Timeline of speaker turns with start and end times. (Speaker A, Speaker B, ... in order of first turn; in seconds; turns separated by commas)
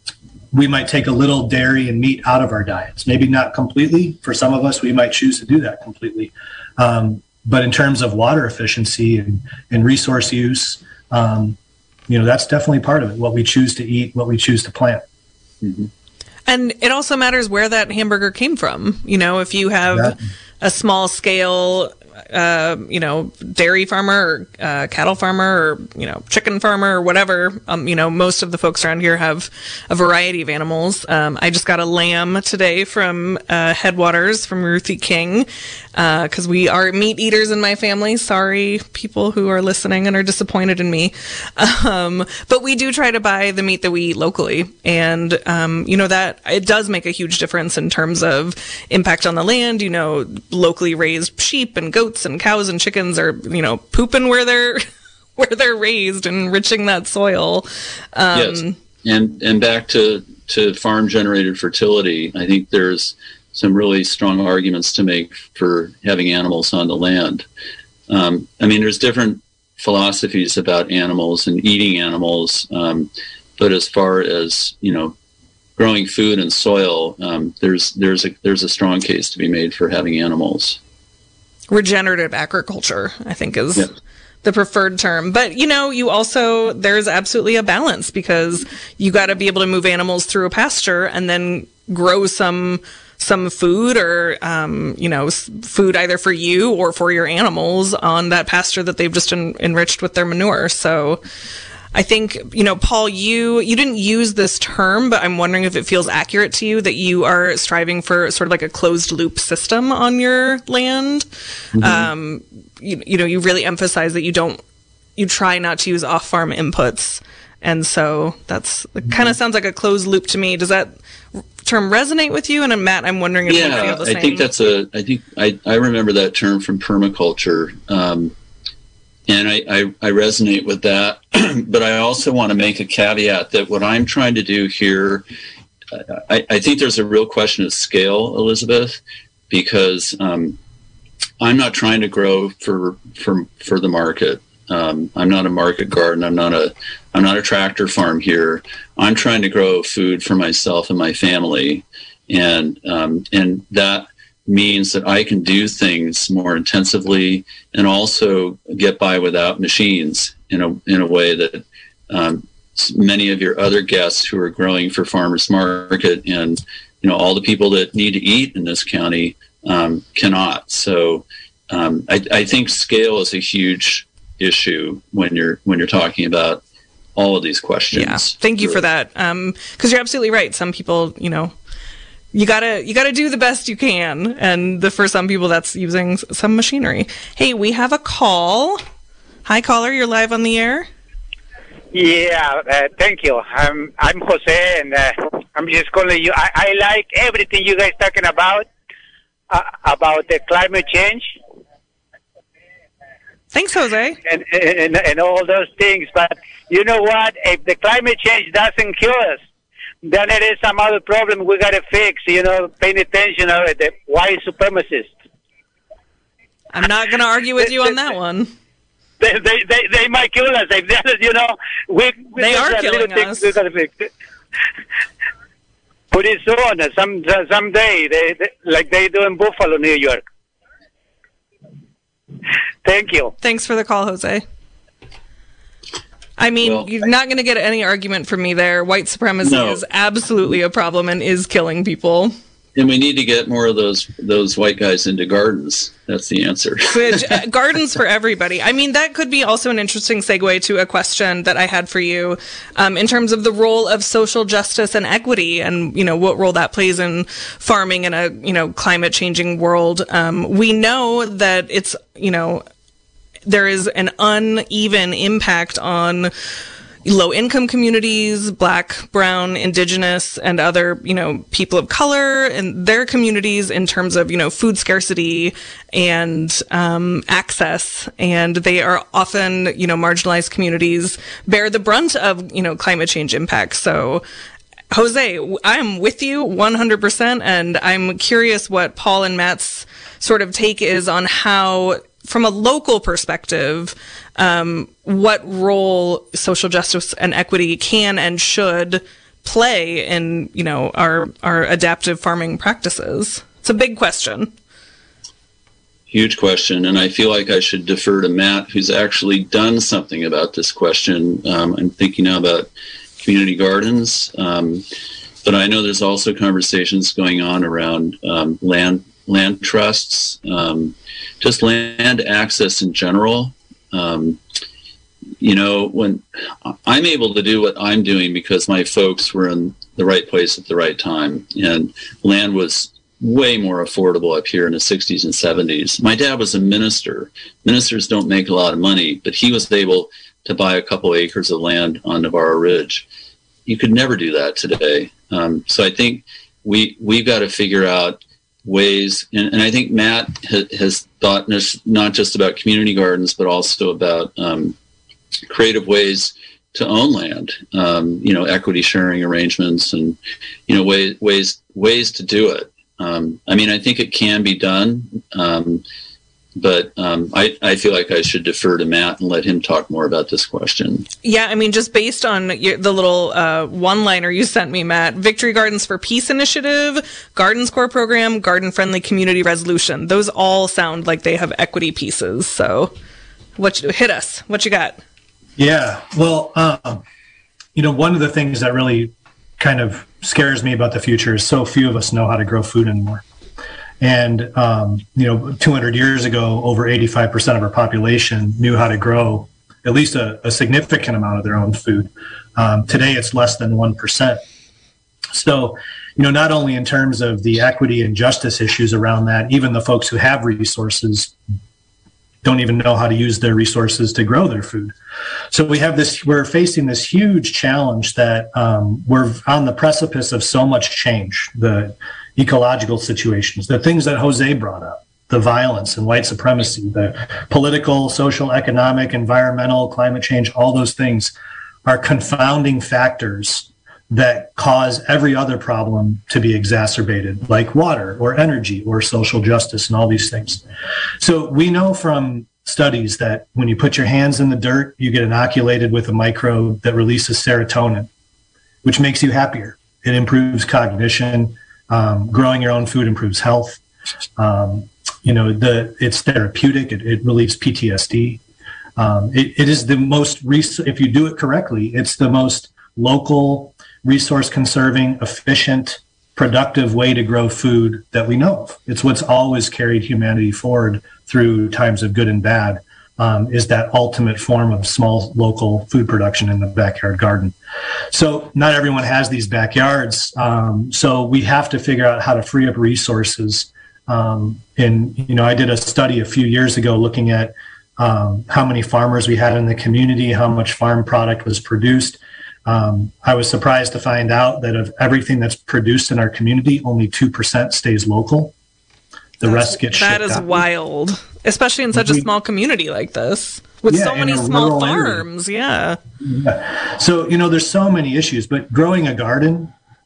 Speaker A: 0.5-11.6, Speaker A: 12.1-15.0, Speaker B: 15.6-15.9, Speaker C: 16.5-54.8, Speaker A: 19.9-20.1, Speaker C: 55.4-58.8, Speaker B: 58.3-67.5, Speaker B: 68.1-75.1, Speaker B: 75.8-80.8, Speaker C: 81.7-83.9, Speaker C: 84.4-101.2, Speaker C: 101.9-111.3, Speaker B: 111.8-112.1, Speaker C: 111.8-114.6, Speaker C: 115.2-120.9, Speaker C: 121.6-124.5, Speaker B: 123.5-128.3, Speaker B: 129.3-135.2, Speaker B: 135.9-140.6, Speaker B: 141.4-176.6, Speaker B: 177.2-178.8, Speaker C: 177.9-181.5, Speaker C: 182.3-188.8, Speaker C: 189.4-190.9, Speaker D: 191.9-198.7, Speaker D: 199.5-201.3, Speaker C: 203.5-204.2, Speaker D: 204.2-209.4, Speaker D: 210.0-215.1, Speaker C: 216.7-218.5, Speaker D: 219.2-224.1, Speaker C: 222.4-223.5, Speaker D: 226.1-230.2, Speaker D: 232.8-233.3, Speaker C: 233.4-234.4, Speaker C: 236.4-242.3, Speaker B: 236.6-236.9, Speaker B: 239.4-239.8, Speaker B: 242.7-247.4, Speaker C: 246.9-262.6, Speaker C: 263.4-266.3, Speaker C: 267.0-284.2, Speaker C: 284.9-304.5, Speaker B: 306.1-312.7, Speaker B: 313.2-314.8, Speaker B: 315.4-324.4, Speaker B: 325.4-343.1, Speaker B: 343.7-354.8, Speaker B: 355.5-365.8, Speaker B: 366.6-371.1, Speaker C: 371.2-382.9, Speaker C: 383.6-385.0, Speaker A: 385.6-387.0, Speaker A: 387.7-393.2, Speaker A: 394.0-404.4, Speaker A: 405.3-411.3, Speaker A: 412.4-414.9, Speaker A: 415.5-431.3, Speaker A: 431.8-440.6, Speaker A: 441.2-448.1, Speaker A: 448.8-453.8, Speaker A: 454.4-458.4, Speaker A: 459.0-477.5, Speaker A: 478.1-498.5, Speaker A: 499.4-500.6, Speaker C: 499.4-506.0, Speaker A: 501.9-502.2, Speaker A: 503.9-505.2, Speaker A: 506.2-509.7